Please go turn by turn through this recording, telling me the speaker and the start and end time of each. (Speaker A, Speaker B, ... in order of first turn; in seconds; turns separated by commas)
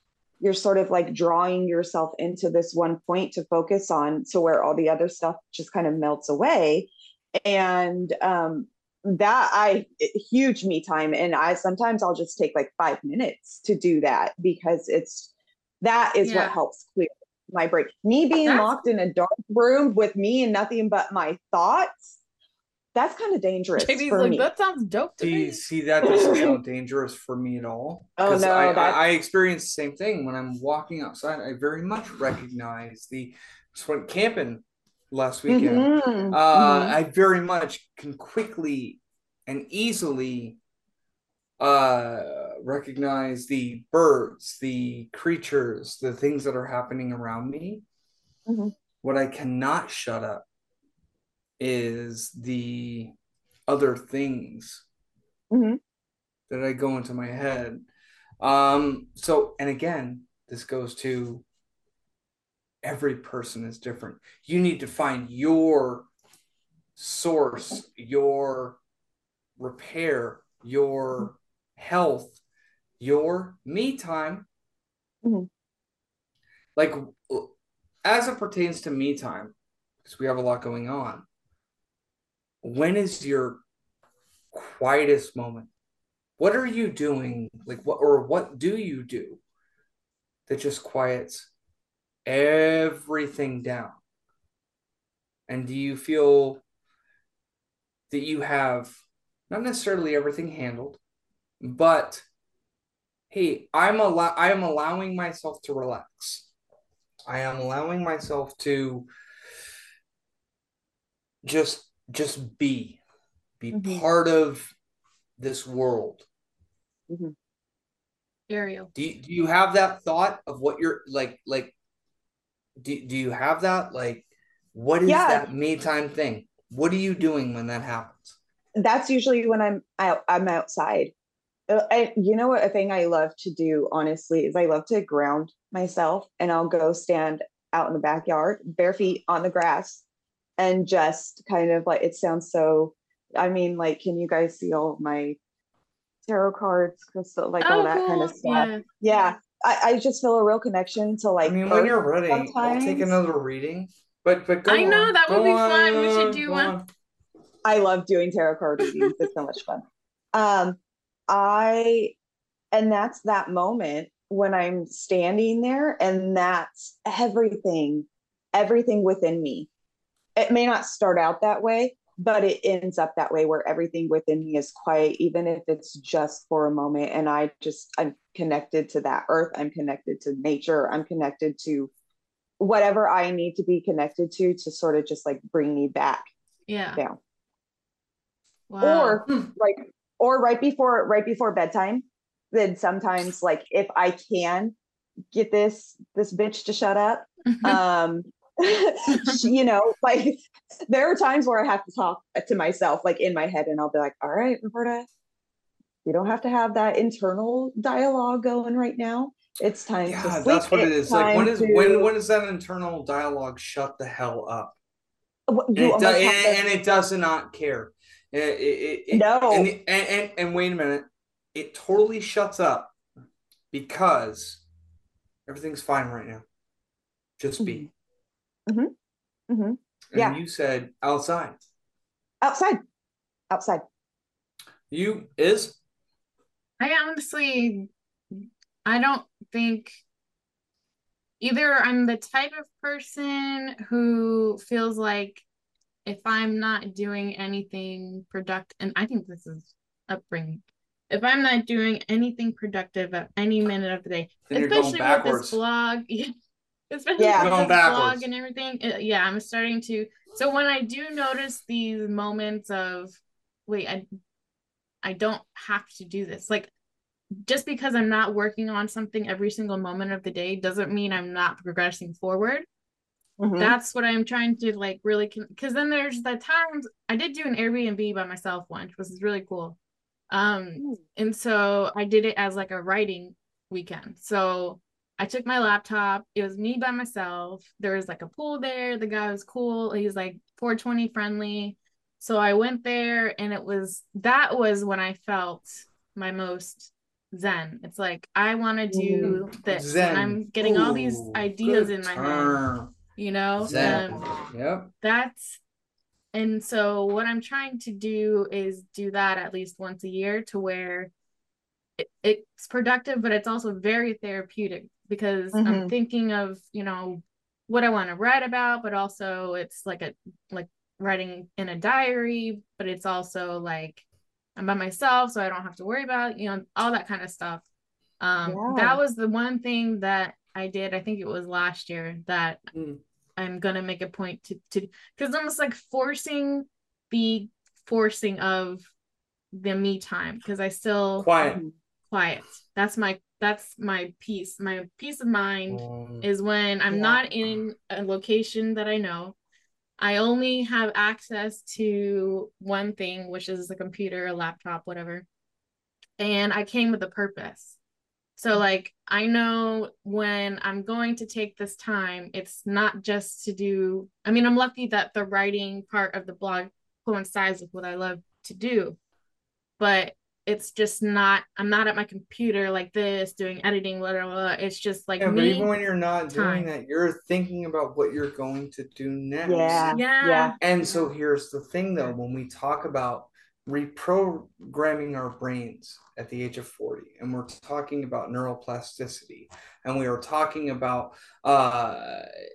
Speaker A: 0.4-22.1, Speaker B: 16.2-16.6, Speaker B: 18.4-18.8, Speaker A: 22.9-24.5, Speaker B: 23.8-25.6, Speaker C: 25.2-40.6, Speaker A: 26.0-26.6, Speaker A: 28.2-29.0, Speaker A: 35.5-37.0, Speaker C: 41.6-47.8, Speaker A: 48.5-48.7, Speaker C: 49.0-50.4, Speaker C: 51.6-53.1, Speaker C: 53.7-54.8, Speaker A: 55.5-55.8, Speaker C: 56.5-57.9, Speaker C: 58.4-61.4, Speaker C: 62.8-66.1, Speaker C: 67.0-68.8, Speaker C: 69.6-72.4, Speaker C: 73.0-74.5, Speaker C: 76.8-77.5, Speaker C: 78.0-79.5, Speaker C: 80.0-81.2, Speaker C: 82.6-83.6, Speaker C: 84.5-85.7, Speaker C: 86.4-89.4, Speaker C: 90.5-91.5, Speaker C: 92.2-94.0, Speaker C: 95.5-96.6, Speaker C: 98.1-98.9, Speaker C: 99.5-101.0, Speaker C: 101.6-102.2, Speaker C: 103.3-106.5, Speaker C: 107.3-109.1, Speaker C: 111.4-113.0, Speaker C: 113.6-114.7, Speaker A: 113.7-114.0, Speaker C: 115.4-116.2, Speaker A: 117.1-117.3, Speaker B: 118.5-118.9, Speaker C: 118.9-121.7, Speaker C: 122.8-128.3, Speaker A: 125.0-125.5, Speaker A: 128.8-131.1, Speaker A: 131.7-140.0, Speaker A: 140.6-145.4, Speaker A: 146.3-153.2, Speaker B: 147.6-148.8, Speaker C: 151.4-156.8, Speaker B: 154.7-156.7, Speaker A: 157.6-162.1, Speaker A: 162.7-169.7, Speaker A: 170.3-181.9, Speaker A: 182.6-186.2, Speaker B: 186.7-187.0, Speaker B: 188.7-189.2, Speaker A: 188.8-194.7, Speaker A: 195.3-205.1, Speaker A: 206.0-212.1, Speaker C: 210.1-214.8, Speaker A: 215.5-216.6, Speaker C: 215.7-222.9, Speaker A: 219.1-219.7, Speaker C: 223.7-224.6, Speaker C: 225.4-226.4, Speaker C: 227.4-227.9, Speaker A: 227.6-227.9, Speaker A: 228.7-228.9, Speaker A: 229.5-230.4, Speaker C: 230.1-231.6, Speaker A: 232.4-232.8, Speaker A: 233.5-233.8, Speaker C: 234.9-235.8, Speaker B: 236.8-240.0, Speaker B: 241.4-245.4, Speaker B: 246.0-256.3, Speaker C: 254.5-255.6, Speaker B: 256.9-264.0, Speaker A: 257.2-257.5, Speaker C: 257.4-258.2, Speaker B: 265.0-266.7, Speaker B: 267.4-272.6, Speaker A: 273.4-273.8, Speaker B: 273.6-279.8, Speaker B: 280.3-302.6, Speaker A: 298.9-299.4, Speaker C: 299.2-302.9, Speaker B: 303.1-304.3, Speaker C: 303.6-304.9, Speaker A: 303.7-304.0, Speaker B: 305.0-305.6, Speaker B: 306.3-311.1, Speaker B: 312.0-324.0, Speaker A: 315.5-315.9, Speaker B: 324.6-327.6, Speaker B: 328.2-332.6, Speaker A: 328.4-329.0, Speaker C: 332.7-333.0, Speaker B: 333.4-338.9, Speaker B: 339.5-341.4, Speaker C: 341.2-341.6, Speaker A: 341.4-341.7, Speaker B: 342.1-349.4, Speaker C: 345.7-346.3, Speaker A: 346.9-347.2, Speaker B: 350.0-355.2, Speaker B: 356.2-357.8, Speaker B: 358.4-369.0, Speaker B: 369.8-375.7, Speaker C: 375.2-380.0, Speaker B: 376.3-376.7, Speaker A: 379.4-380.5, Speaker B: 379.9-381.1, Speaker C: 380.6-392.2